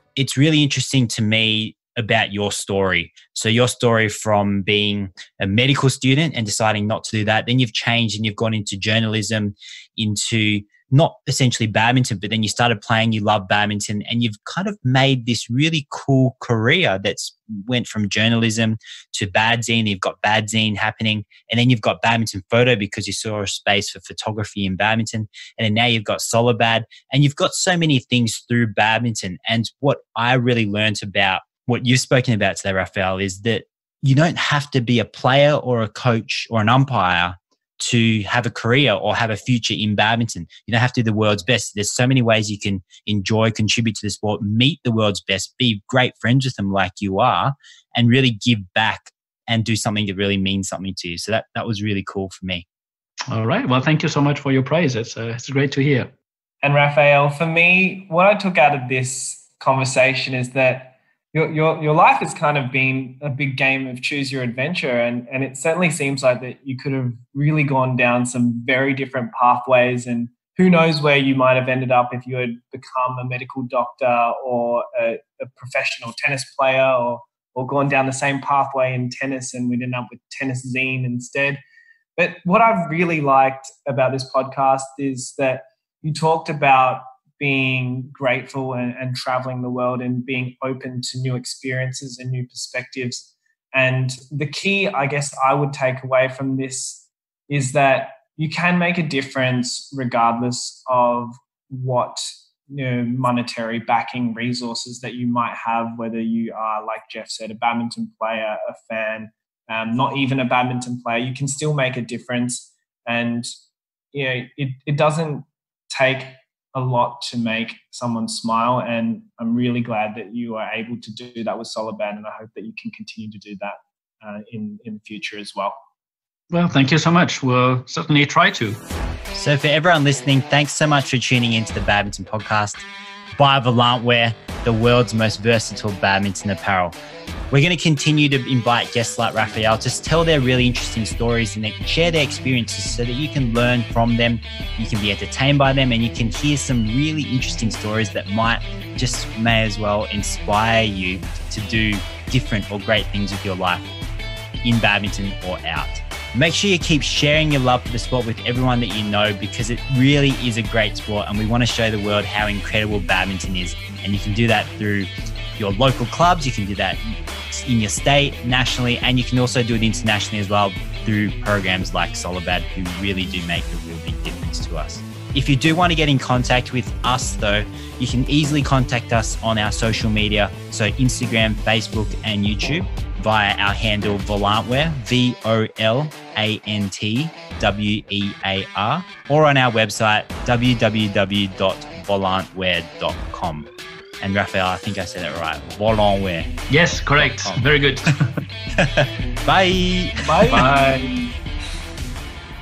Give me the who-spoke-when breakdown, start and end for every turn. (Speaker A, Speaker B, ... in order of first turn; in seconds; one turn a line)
Speaker A: 0.1-52.6
Speaker B: 53.3-56.1
Speaker C: 56.6-81.6
Speaker C: 82.2-113.5
Speaker C: 114.1-125.8
Speaker B: 126.5-128.8
Speaker A: 129.3-132.8
Speaker A: 133.3-136.9
Speaker A: 137.5-153.8
Speaker A: 154.6-193.7
Speaker A: 194.2-196.5
Speaker B: 196.7-198.3
Speaker A: 197.2-197.6
Speaker A: 198.8-200.7
Speaker C: 200.2-201.3
Speaker B: 200.5-201.1